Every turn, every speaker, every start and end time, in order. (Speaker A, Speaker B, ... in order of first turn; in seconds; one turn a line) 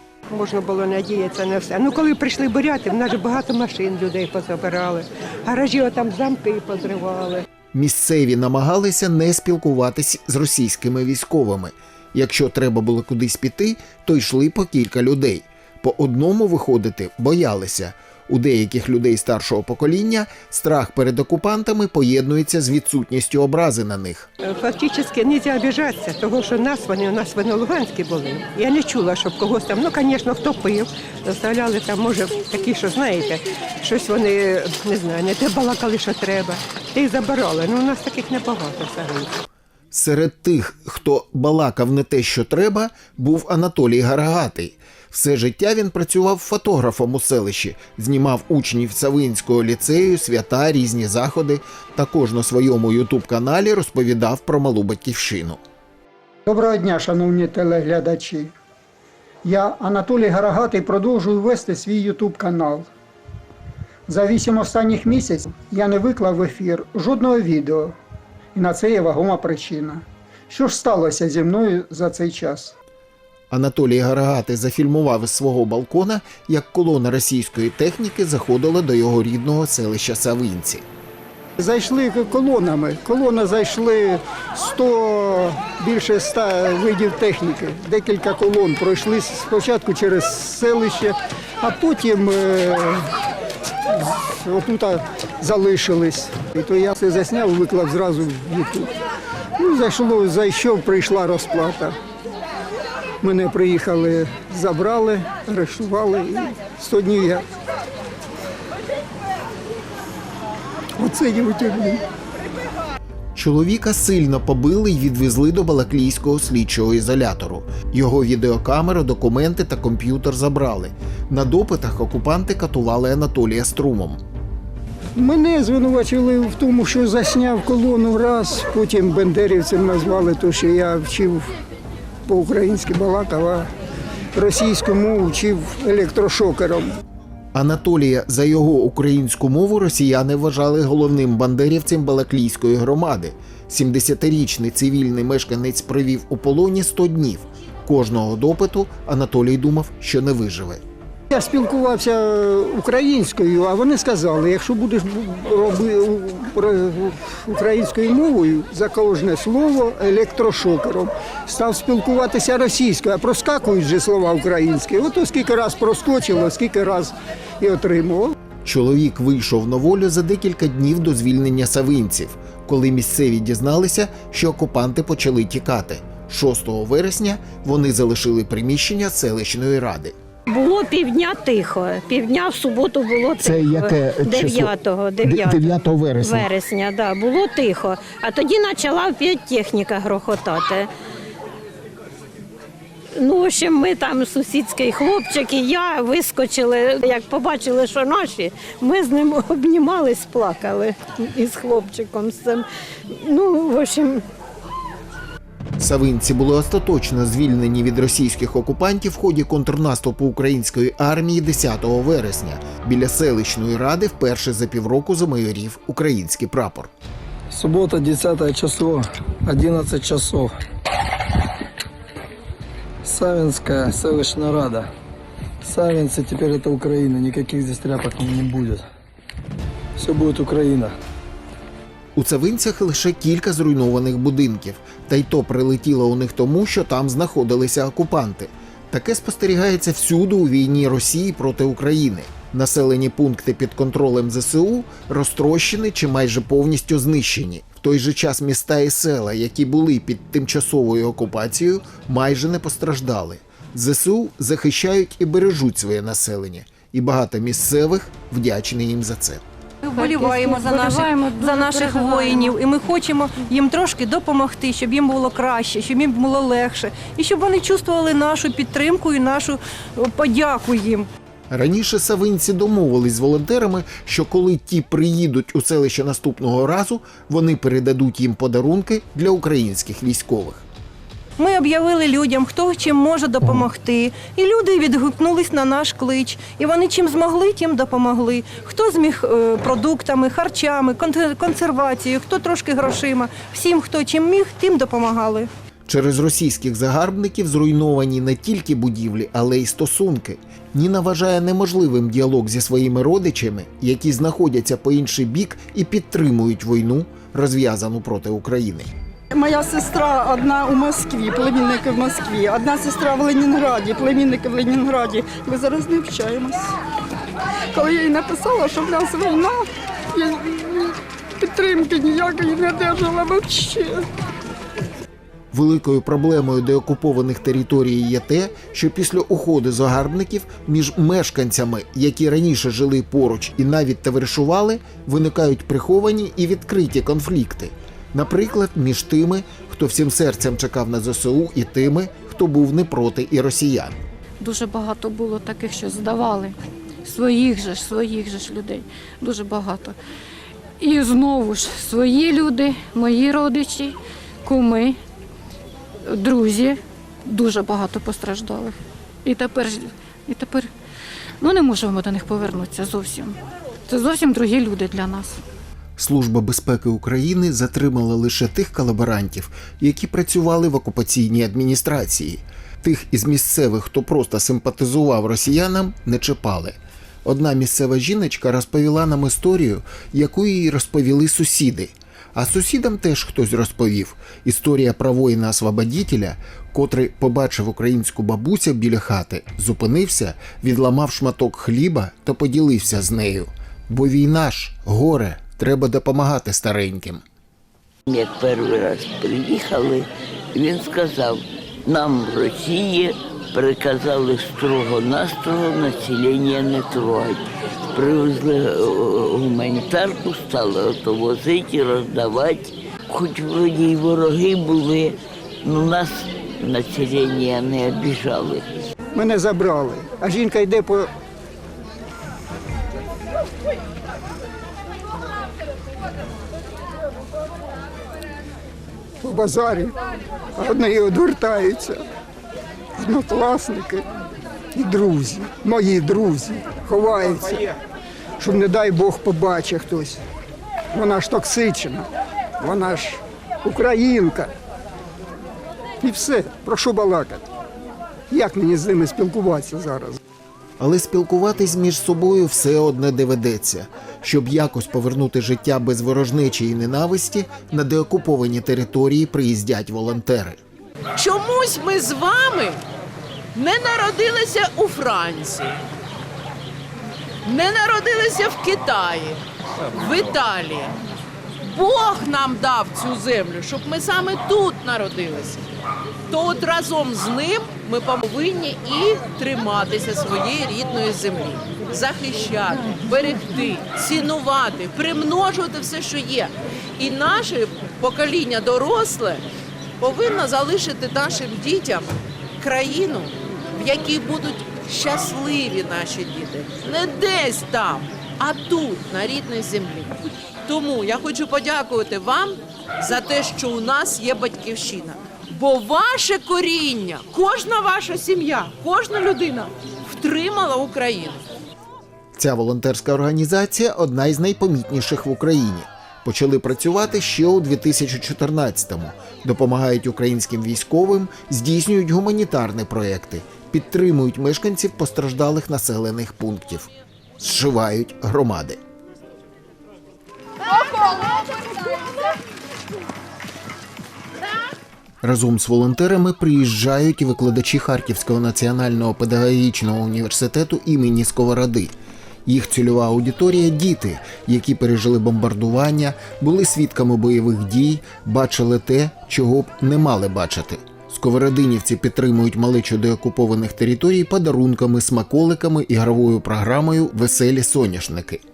Speaker A: 0.3-7.5
Speaker B: 7.7-24.3
Speaker A: 24.5-39.3
Speaker B: 39.9-55.6
Speaker C: 56.5-58.5
Speaker C: 59.4-62.9
Speaker C: 64.1-68.0
Speaker C: 68.5-72.8
Speaker B: 73.5-80.8
Speaker C: 81.6-93.1
Speaker C: 93.9-98.9
Speaker C: 99.6-102.0
Speaker C: 103.2-107.5
Speaker C: 111.0-112.0
Speaker B: 113.4-124.2
Speaker C: 125.2-131.5
Speaker C: 132.3-133.7
Speaker C: 134.3-137.0
Speaker B: 137.6-150.8
Speaker C: 151.3-168.3
Speaker B: 168.7-180.2
Speaker D: 180.5-190.9
Speaker B: 183.4-184.7
Speaker B: 185.2-186.5
Speaker D: 193.2-204.2
Speaker B: 205.8-216.9
Speaker E: 217.5-220.5
Speaker E: 223.0-224.9
Speaker E: 225.6-228.8
Speaker E: 230.0-230.9
Speaker B: 232.2-259.4
Speaker F: 259.8-271.1
Speaker G: 260.0-262.6
Speaker B: 271.5-280.6
Speaker F: 281.4-295.5
Speaker B: 295.9-308.9
Speaker H: 309.3-316.7
Speaker H: 317.7-324.1
Speaker B: 325.5-344.0
Speaker G: 344.4-350.0
Speaker G: 350.8-355.0
Speaker G: 356.1-360.7
Speaker G: 361.4-363.4
Speaker G: 363.9-365.4
Speaker B: 366.0-397.2
Speaker I: 398.1-407.4
Speaker I: 407.9-418.6
Speaker C: 419.1-421.1
Speaker C: 429.2-429.9
Speaker C: 430.6-432.0
Speaker C: 433.0-434.1
Speaker C: 434.7-437.7
Speaker C: 438.4-440.2
Speaker C: 440.9-442.1
Speaker C: 442.6-444.5
Speaker C: 446.0-447.5
Speaker C: 448.3-450.2
Speaker B: 450.8-460.6
Speaker J: 461.2-462.8
Speaker J: 463.5-465.8
Speaker J: 467.4-469.4
Speaker J: 469.9-470.9
Speaker J: 471.6-475.6
Speaker J: 476.3-489.4
Speaker J: 490.0-500.1
Speaker J: 500.7-511.4
Speaker B: 512.4-528.8
Speaker B: 535.2-541.9
Speaker B: 542.5-558.4